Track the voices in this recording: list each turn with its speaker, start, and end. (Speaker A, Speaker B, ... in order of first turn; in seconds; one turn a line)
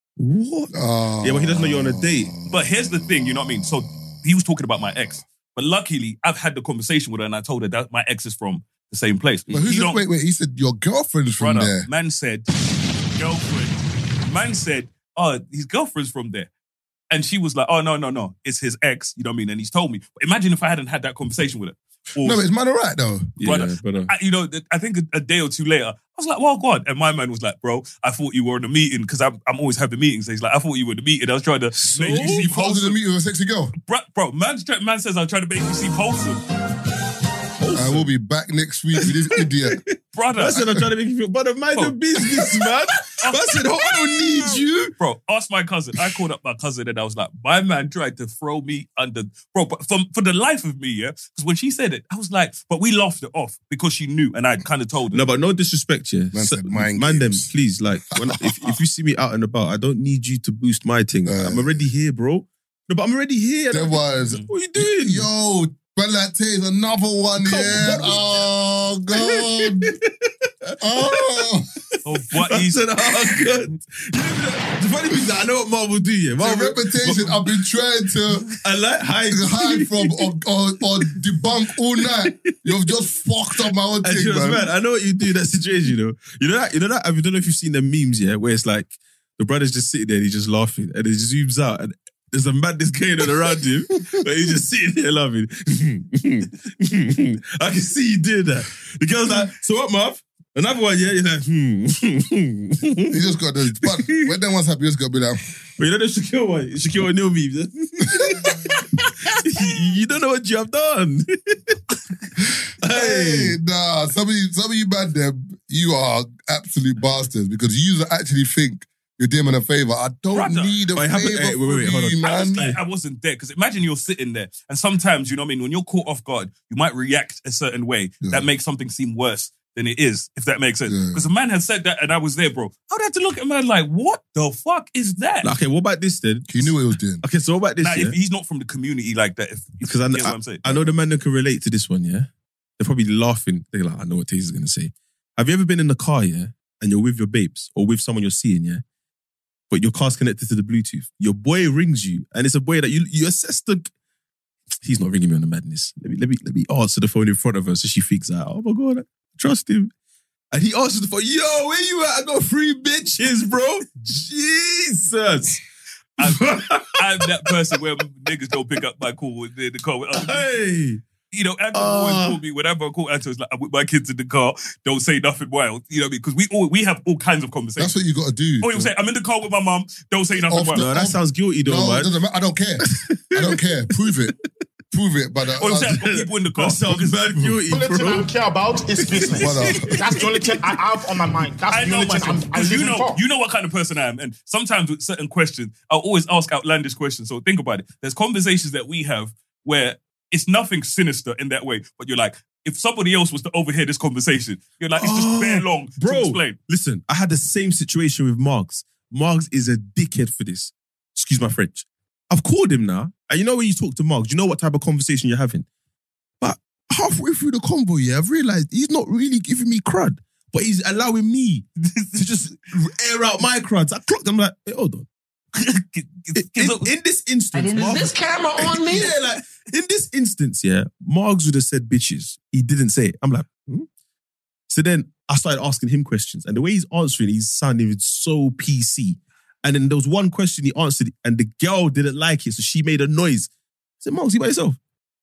Speaker A: 0.2-2.3
Speaker B: 0.7-3.9
Speaker C: 2.5-10.0
Speaker B: 9.5-11.9
Speaker C: 11.4-16.5
Speaker C: 17.1-22.4
Speaker B: 22.2-23.4
Speaker A: 23.4-24.1
Speaker C: 23.4-33.0
Speaker A: 31.8-32.5
Speaker B: 32.1-33.7
Speaker C: 33.9-36.4
Speaker A: 37.6-38.1
Speaker B: 37.7-39.8
Speaker A: 39.0-44.9
Speaker C: 40.1-40.7
Speaker C: 41.8-42.6
Speaker C: 43.2-43.6
Speaker C: 45.0-55.2
Speaker A: 55.1-65.3
Speaker B: 56.3-57.5
Speaker B: 58.2-58.8
Speaker B: 61.2-61.8
Speaker B: 63.7-69.9
Speaker A: 67.4-68.5
Speaker A: 69.2-70.0
Speaker A: 70.6-71.5
Speaker B: 70.8-71.7
Speaker C: 72.0-72.8
Speaker A: 72.3-77.6
Speaker B: 76.4-78.5
Speaker A: 78.6-80.3
Speaker B: 79.3-84.7
Speaker A: 82.0-82.5
Speaker A: 84.0-103.2
Speaker B: 103.1-105.4
Speaker A: 103.8-104.3
Speaker A: 105.8-111.8
Speaker A: 112.8-113.5
Speaker B: 112.8-122.6
Speaker C: 120.3-120.8
Speaker A: 121.0-122.8
Speaker C: 122.2-135.5
Speaker B: 130.9-131.2
Speaker A: 135.4-138.2
Speaker B: 136.5-137.2
Speaker C: 137.8-140.9
Speaker A: 139.8-148.8
Speaker A: 149.7-153.9
Speaker A: 154.8-159.9
Speaker A: 160.5-165.6
Speaker C: 166.2-170.5
Speaker A: 166.2-167.5
Speaker A: 170.1-171.0
Speaker C: 171.3-177.9
Speaker A: 171.7-172.4
Speaker B: 177.8-178.9
Speaker C: 178.6-180.9
Speaker B: 180.4-184.3
Speaker A: 180.7-182.1
Speaker A: 182.9-183.6
Speaker B: 184.9-186.0
Speaker C: 185.6-187.2
Speaker A: 185.8-188.3
Speaker B: 187.4-187.6
Speaker D: 187.7-193.2
Speaker A: 188.9-190.6
Speaker B: 189.3-190.0
Speaker C: 191.7-206.6
Speaker A: 204.9-215.7
Speaker A: 216.4-225.1
Speaker C: 221.8-222.4
Speaker C: 225.5-226.9
Speaker A: 226.3-233.9
Speaker A: 234.7-243.5
Speaker A: 244.0-244.8